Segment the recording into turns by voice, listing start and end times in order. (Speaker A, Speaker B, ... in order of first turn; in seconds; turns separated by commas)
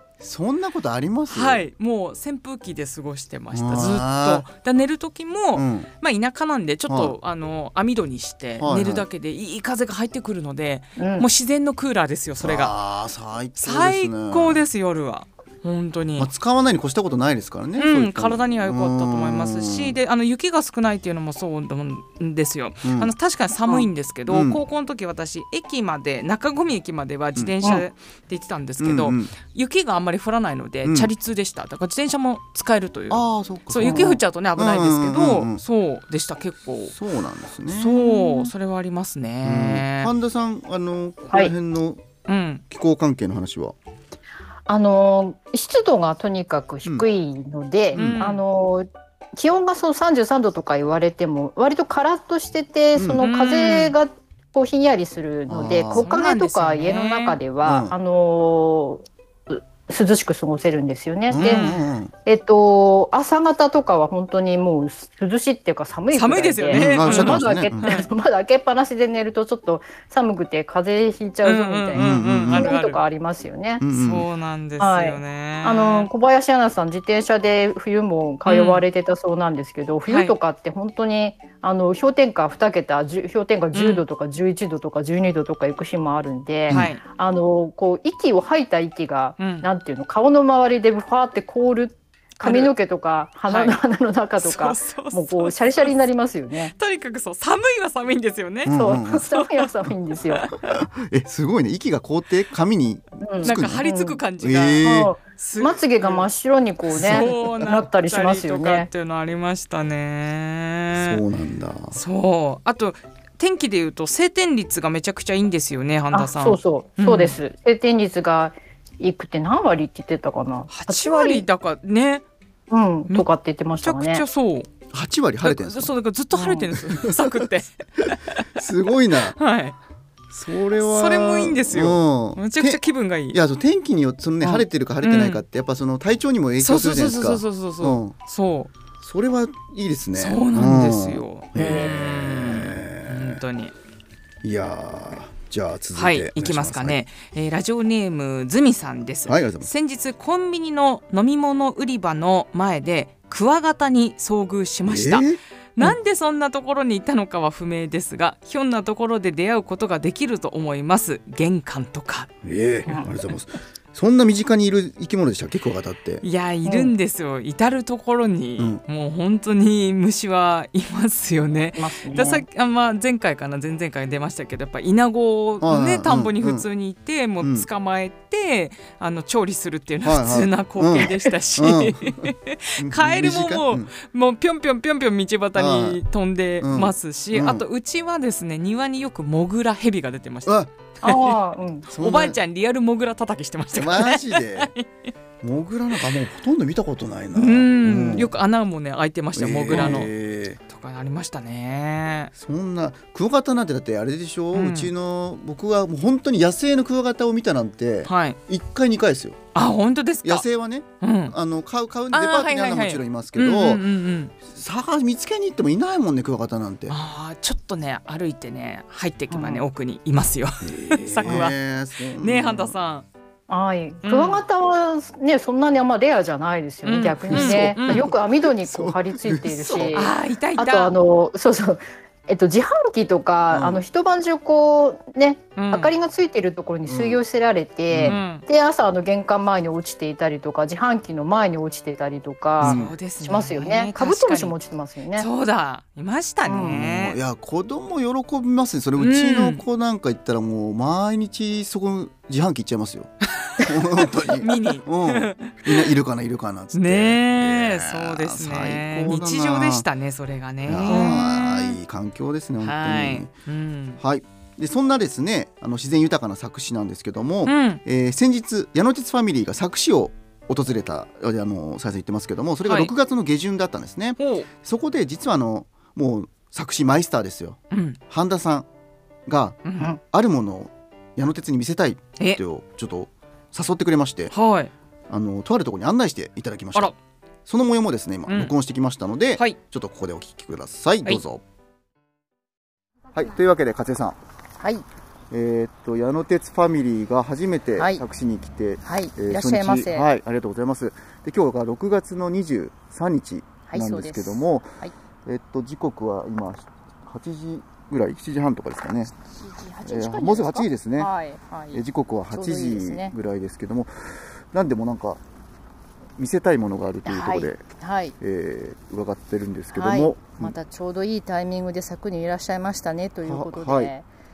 Speaker A: 0.2-1.6, Speaker B: 1.3-12.7, Speaker A: 3.5-4.4, Speaker A: 5.5-5.9, Speaker A: 6.9-7.2, Speaker A: 8.6-9.0, Speaker C: 11.0-11.3, Speaker A: 12.4-14.6, Speaker B: 13.6-16.3, Speaker A: 16.2-20.0, Speaker B: 17.8-37.0, Speaker A: 22.8-23.1, Speaker A: 24.3-24.6, Speaker A: 28.8-29.3, Speaker A: 30.8-31.1, Speaker A: 33.1-35.6, Speaker C: 33.8-34.2, Speaker A: 36.9-38.1, Speaker B: 37.7-40.1, Speaker A: 39.4-42.0, Speaker B: 42.3-42.6, Speaker A: 42.7-43.7, Speaker C: 44.7-61.7, Speaker B: 47.9-48.4, Speaker A: 48.0-48.2, Speaker A: 53.0-53.2, Speaker B: 53.2-54.0, Speaker A: 55.5-56.0, Speaker B: 55.9-57.4, Speaker A: 57.6-57.9, Speaker A: 61.3-62.1, Speaker B: 61.4-61.8, Speaker C: 62.2-73.8, Speaker B: 66.1-68.1, Speaker A: 66.7-67.9, Speaker B: 71.4-73.0, Speaker A: 72.0-72.7, Speaker A: 73.8-74.2, Speaker B: 73.9-76.1, Speaker C: 74.8-96.7, Speaker B: 78.5-78.8, Speaker B: 80.1-80.3, Speaker B: 83.7-84.0, Speaker A: 86.7-86.9, Speaker B: 86.7-87.0, Speaker B: 89.4-89.7, Speaker B: 92.4-92.7, Speaker B: 93.5-93.8, Speaker B: 94.4-96.0, Speaker B: 96.7-99.7, Speaker A: 98.6-99.3, Speaker C: 98.7-100.5, Speaker B: 100.3-100.8, Speaker A: 100.6-103.8, Speaker C: 103.2-104.2, Speaker B: 103.4-106.3, Speaker A: 104.4-105.1, Speaker C: 104.8-108.9, Speaker B: 106.9-111.2, Speaker A: 107.0-107.3, Speaker A: 110.9-112.0, Speaker B: 111.9-117.4, Speaker C: 116.1-121.4, Speaker B: 120.7-122.2, Speaker C: 122.7-124.2, Speaker B: 123.8-124.7, Speaker A: 124.9-125.9, Speaker B: 125.4-128.7, Speaker C: 126.3-126.7, Speaker A: 126.8-127.5, Speaker A: 128.0-129.3, Speaker B: 129.3-129.8, Speaker A: 130.3-132.8, Speaker B: 130.8-133.4, Speaker A: 133.3-138.1, Speaker B: 134.4-135.4, Speaker B: 136.6-138.7, Speaker A: 139.0-143.4, Speaker B: 140.2-143.7, Speaker C: 141.6-141.9, Speaker A: 144.4-147.0, Speaker B: 145.9-162.3, Speaker A: 149.2-149.7, Speaker A: 154.8-155.4, Speaker A: 162.4-166.2, Speaker B: 166.2-191.4, Speaker C: 166.6-166.9, Speaker C: 171.8-172.4, Speaker A: 175.6-176.6, Speaker A: 177.4-177.7, Speaker A: 180.0-183.9, Speaker A: 185.5-186.0, Speaker A: 186.6-187.6, Speaker C: 191.0-191.9, Speaker B: 191.9-195.1, Speaker A: 191.9-192.4, Speaker A: 193.7-194.7, Speaker A: 195.4-198.3, Speaker B: 197.3-200.1, Speaker A: 199.3-200.6, Speaker C: 199.8-200.0, Speaker B: 200.7-202.3, Speaker A: 202.3-209.4, Speaker B: 204.5-204.9, Speaker B: 208.1-208.4, Speaker B: 209.5-210.4, Speaker A: 210.2-213.8, Speaker B: 211.0-211.3, Speaker B: 212.1-214.3, Speaker A: 214.4-216.9, Speaker B: 216.9-221.6, Speaker C: 219.3-219.6, Speaker A: 220.6-222.7, Speaker B: 222.2-223.1, Speaker C: 223.5-245.3, Speaker B: 224.0-224.4, Speaker B: 226.8-228.1, Speaker A: 227.3-230.0, Speaker B: 229.6-230.9, Speaker A: 233.5-233.8, Speaker B: 235.6-235.9, Speaker A: 236.9-237.2, Speaker A: 237.9-238.2, Speaker B: 238.0-238.4, Speaker B: 242.6-244.5, Speaker A: 242.6-242.9, Speaker B: 245.2-247.2, Speaker C: 246.4-246.8, Speaker A: 246.6-259.8, Speaker B: 249.0-249.6, Speaker B: 253.4-255.9, Speaker B: 256.7-261.8, Speaker A: 260.6-263.3, Speaker C: 260.9-261.2, Speaker B: 262.6-264.0, Speaker A: 264.0-277.6, Speaker B: 267.4-267.8, Speaker B: 272.6-272.9, Speaker B: 274.2-274.5, Speaker B: 277.7-278.0, Speaker A: 278.1-278.7, Speaker A: 279.3-284.3, Speaker B: 279.6-279.9, Speaker B: 284.3-284.7, Speaker A: 285.1-286.9, Speaker A: 287.4-291.4, Speaker B: 288.3-288.5, Speaker A: 293.1-294.2, Speaker C: 294.6-294.8, Speaker A: 295.3-304.7, Speaker C: 297.8-298.0, Speaker C: 298.8-300.1, Speaker C: 303.7-304.9, Speaker A: 305.2-309.1, Speaker C: 309.2-313.1, Speaker A: 309.9-311.1, Speaker A: 311.7-315.2, Speaker A: 316.2-317.6, Speaker C: 317.0-318.1, Speaker A: 318.2-320.5, Speaker C: 319.7-324.1, Speaker A: 323.2-323.9